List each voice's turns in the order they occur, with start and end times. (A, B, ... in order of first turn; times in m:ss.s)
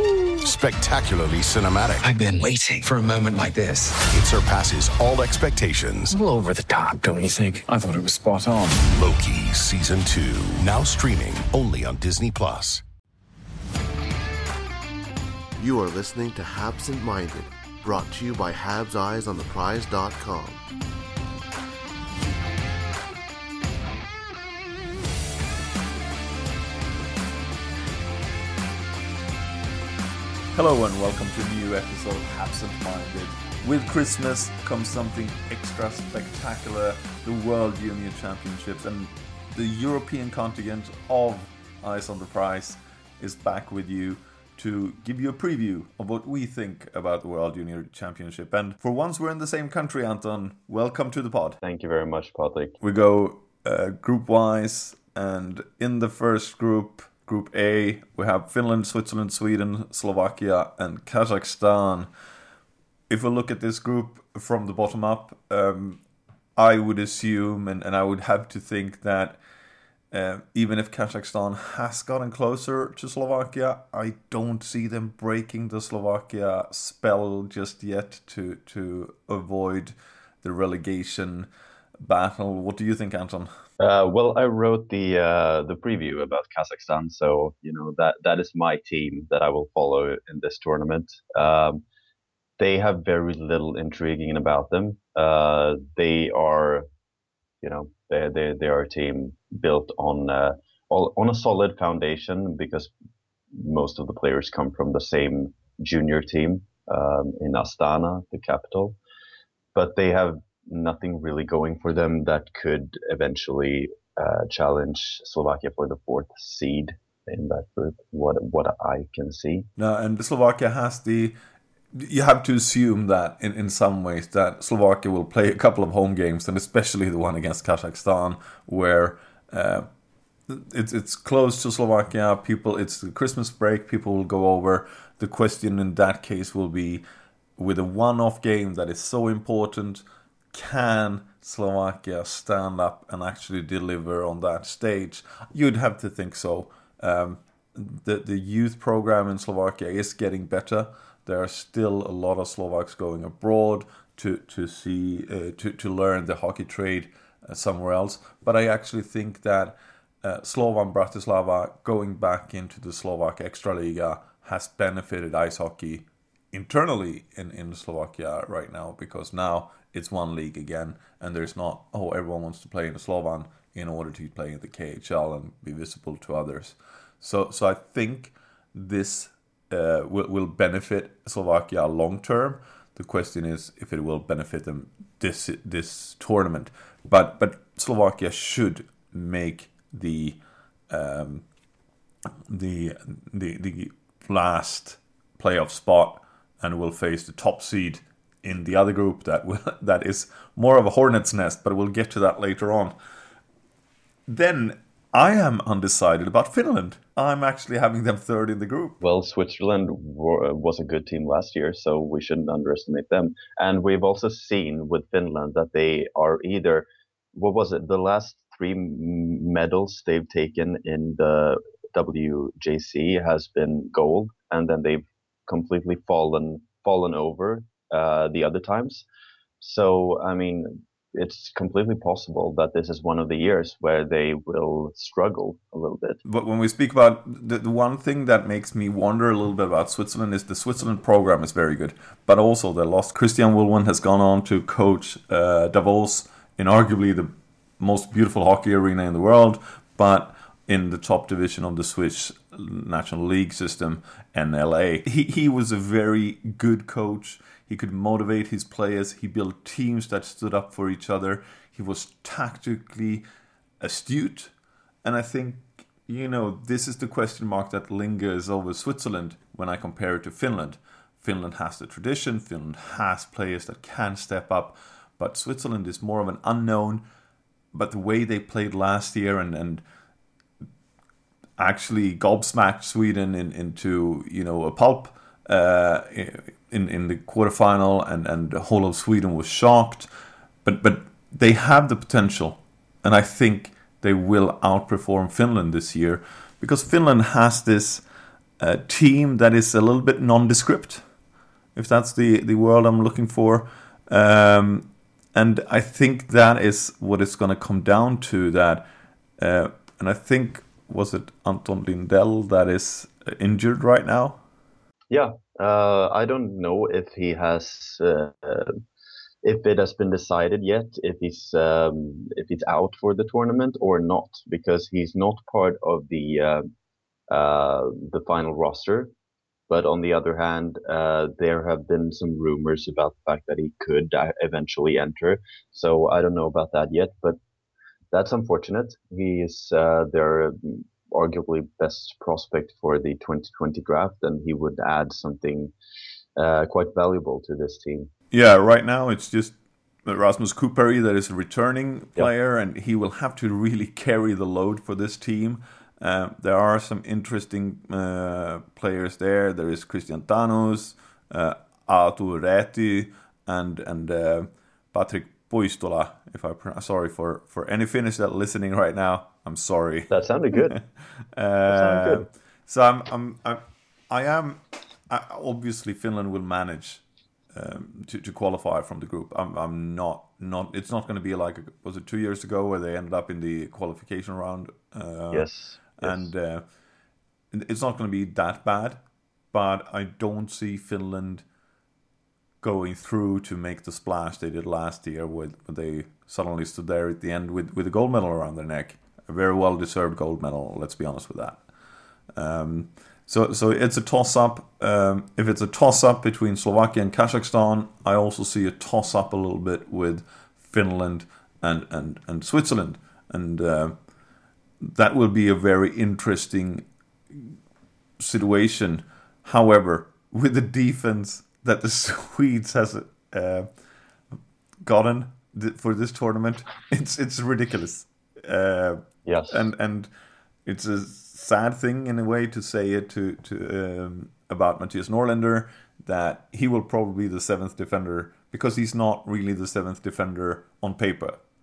0:00.3-0:02.0 A
0:02.0-0:04.0 B
0:04.1-0:06.2 A
0:06.1-0:08.8 B
0:08.8-0:12.8 A
0:15.6-0:20.6 C
0:30.5-0:51.6 D
0:51.6-0:52.8 E
0:52.8-1:02.1 D
1:03.1-1:06.0 D
1:06.6-1:09.4 D
1:10.1-1:21.5 D
1:22.0-1:23.5 D
1:23.8-1:31.8 E
1:32.6-1:36.9 E
1:37.6-1:42.9 E
1:43.5-1:49.0 E
1:49.7-1:59.7 E
1:59.8-2:01.4 D
2:01.9-2:09.9 D
2:10.5-2:17.0 D
2:17.6-3:11.4 D
3:12.5-3:22.9 D
3:24.3-3:29.0 D
3:29.0-3:49.0 E
3:49.6-3:56.2 E
3:56.2-4:23.2 D
4:23.8-4:24.5 D
4:25.0-4:37.0 D
4:37.7-4:39.8 D
4:41.6-4:50.1 D
4:50.6-4:58.0 D
4:58.6-5:01.0 D
5:01.7-5:08.8 D
5:09.4-5:14.4 D
5:15.1-5:18.8 E
5:19.4-5:26.7 E
5:27.3-5:29.1 E
5:29.7-5:37.4 E
5:38.1-5:45.7 E
5:46.4-5:48.1 E
5:48.3-6:17.0 D
6:10.1-6:10.8 E
6:11.7-6:12.2 E
6:17.5-6:26.6 D
6:25.3-6:26.3 E
6:27.5-6:29.0 D
6:29.5-6:31.4 D
6:32.6-6:41.6 D
6:42.3-6:54.0 D
6:54.8-6:57.5 D
6:58.2-7:03.7 D
7:04.8-7:10.1 D
7:09.2-7:09.6 E
7:10.6-7:21.4 D